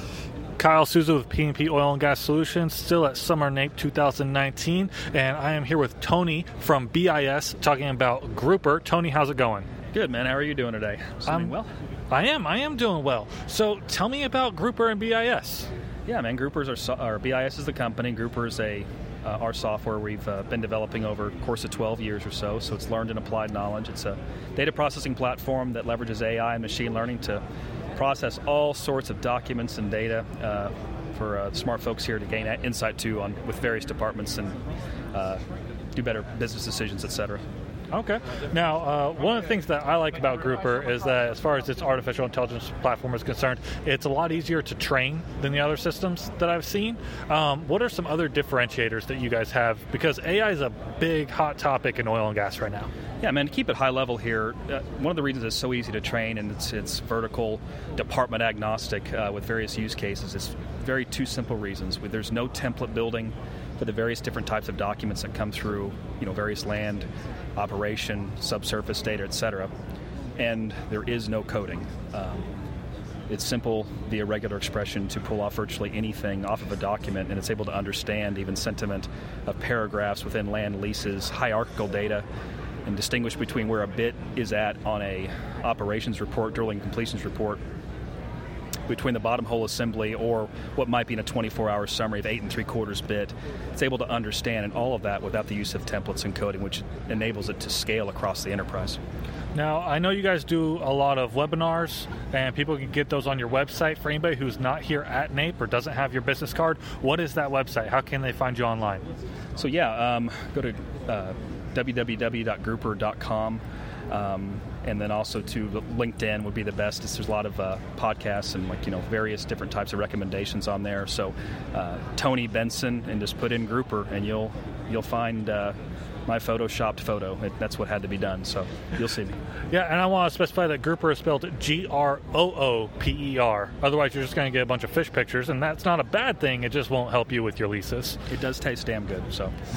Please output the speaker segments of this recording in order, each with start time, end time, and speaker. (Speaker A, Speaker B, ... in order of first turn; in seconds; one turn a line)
Speaker A: 0.6-9.7
Speaker B: 9.9-11.7
Speaker A: 12.1-15.7
Speaker B: 16.1-27.4
Speaker B: 27.9-34.6
Speaker B: 35.1-35.4
Speaker B: 35.9-37.4
Speaker A: 37.9-52.9
Speaker B: 53.2-69.7
Speaker B: 70.4-72.5
Speaker B: 73.3-82.2
Speaker B: 82.8-87.6
Speaker B: 88.9-99.0
Speaker A: 99.5-109.0
Speaker B: 109.5-125.7
Speaker B: 126.3-129.3
Speaker A: 129.7-138.2
Speaker B: 138.3-139.5